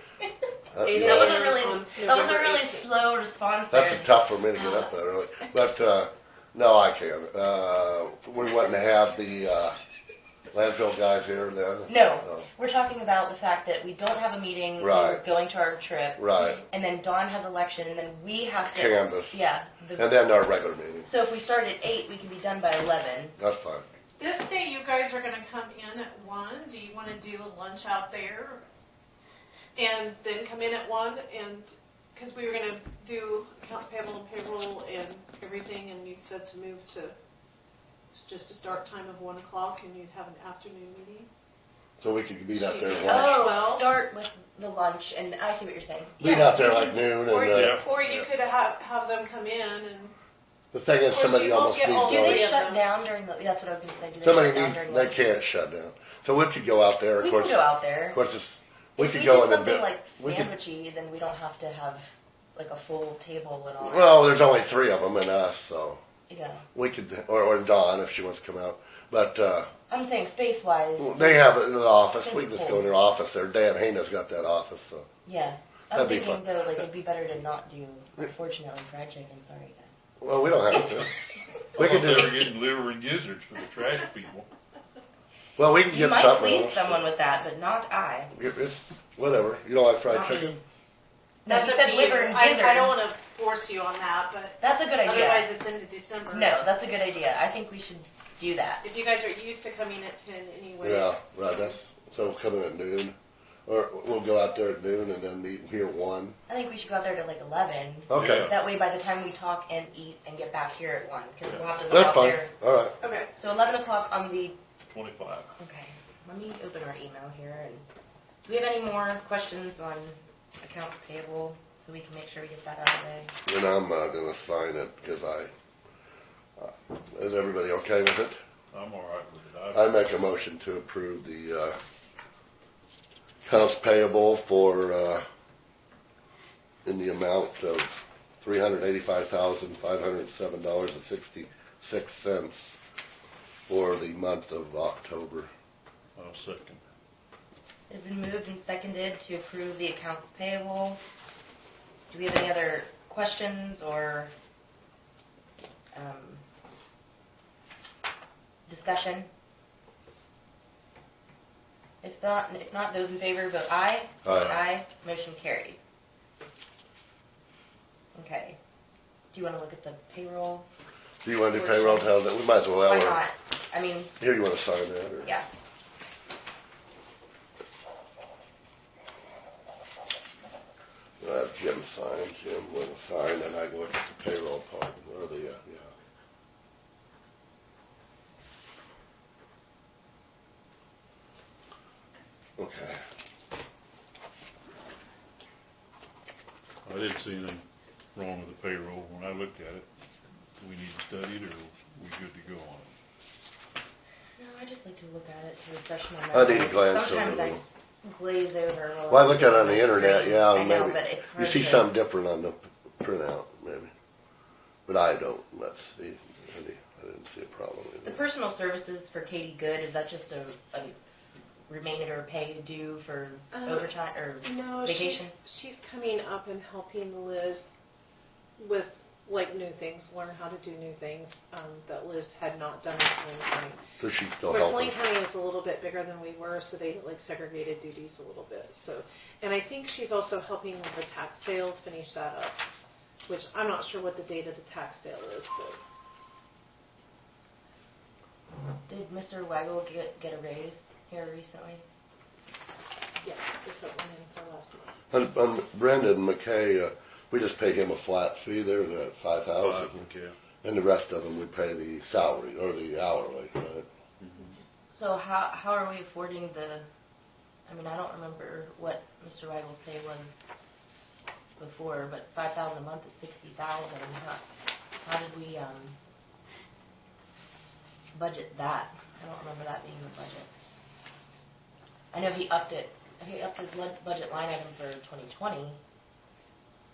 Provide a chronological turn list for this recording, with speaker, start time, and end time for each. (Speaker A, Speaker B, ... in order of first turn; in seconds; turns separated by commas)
Speaker A: 0.7-1.5, Speaker B: 0.8-2.9, Speaker C: 0.9-4.9, Speaker A: 3.7-9.8, Speaker A: 10.5-12.5, Speaker C: 11.9-20.1, Speaker A: 14.8-15.2, Speaker A: 16.2-16.6, Speaker A: 18.7-19.4, Speaker A: 20.0-21.1, Speaker C: 21.1-23.4, Speaker A: 23.4-23.9, Speaker B: 24.2-28.6, Speaker B: 29.8-37.1, Speaker B: 38.1-41.3, Speaker A: 42.0-43.4, Speaker B: 42.5-44.0, Speaker C: 43.1-46.8, Speaker A: 46.2-47.8, Speaker B: 46.9-50.1, Speaker D: 47.5-48.3, Speaker A: 50.7-52.5, Speaker B: 51.1-52.8, Speaker C: 52.0-55.2, Speaker A: 54.2-60.5, Speaker C: 57.2-58.2, Speaker C: 59.0-64.3, Speaker A: 63.8-66.0, Speaker C: 66.3-66.6, Speaker A: 66.7-69.7, Speaker C: 69.9-71.5, Speaker A: 71.0-75.1, Speaker C: 72.1-72.9, Speaker C: 75.2-79.9, Speaker A: 75.9-76.4, Speaker A: 80.2-81.1, Speaker D: 81.8-84.5, Speaker A: 81.8-82.5, Speaker A: 85.6-87.0, Speaker C: 85.9-88.3, Speaker A: 88.3-90.6, Speaker C: 90.1-90.5, Speaker C: 91.5-93.1, Speaker B: 91.5-96.6, Speaker C: 94.6-95.5, Speaker C: 96.3-98.8, Speaker B: 98.8-101.8, Speaker A: 100.8-103.2, Speaker A: 103.7-106.4, Speaker C: 106.5-112.5, Speaker A: 108.1-108.5, Speaker D: 108.1-108.6, Speaker D: 111.5-111.8, Speaker A: 111.9-112.9, Speaker B: 113.0-113.3, Speaker C: 113.4-114.6, Speaker D: 114.9-115.5, Speaker C: 115.6-117.8, Speaker C: 118.5-123.3, Speaker A: 123.5-125.5, Speaker A: 126.6-128.4, Speaker D: 128.7-129.9, Speaker A: 129.7-131.8, Speaker A: 133.4-135.2, Speaker A: 136.8-142.7, Speaker A: 143.7-145.5, Speaker D: 146.2-146.8, Speaker C: 147.9-151.0, Speaker C: 152.1-154.3, Speaker C: 155.9-156.4, Speaker C: 158.7-159.3, Speaker C: 162.0-165.8, Speaker A: 164.2-164.6, Speaker C: 168.1-168.6, Speaker C: 169.3-170.7, Speaker A: 171.2-173.2, Speaker C: 171.5-172.2, Speaker C: 172.8-174.1, Speaker A: 174.2-175.3, Speaker A: 181.2-185.9, Speaker A: 192.6-193.0, Speaker D: 196.8-197.6, Speaker D: 198.2-199.9, Speaker D: 200.6-202.9, Speaker C: 204.4-211.9, Speaker A: 206.3-207.6, Speaker A: 209.1-213.9, Speaker A: 214.9-218.2, Speaker C: 218.0-221.0, Speaker C: 221.7-225.3, Speaker B: 223.5-223.9, Speaker B: 224.4-227.8, Speaker B: 228.6-233.8, Speaker A: 234.0-234.9, Speaker B: 234.5-242.6, Speaker B: 243.3-245.8, Speaker C: 248.9-251.8, Speaker B: 253.2-254.9, Speaker A: 255.1-260.0, Speaker D: 259.6-260.4, Speaker A: 260.6-263.9, Speaker D: 264.2-264.6, Speaker C: 264.9-266.8, Speaker C: 267.7-270.5, Speaker C: 271.6-274.4, Speaker C: 275.0-276.0, Speaker C: 278.1-280.5, Speaker C: 282.1-285.8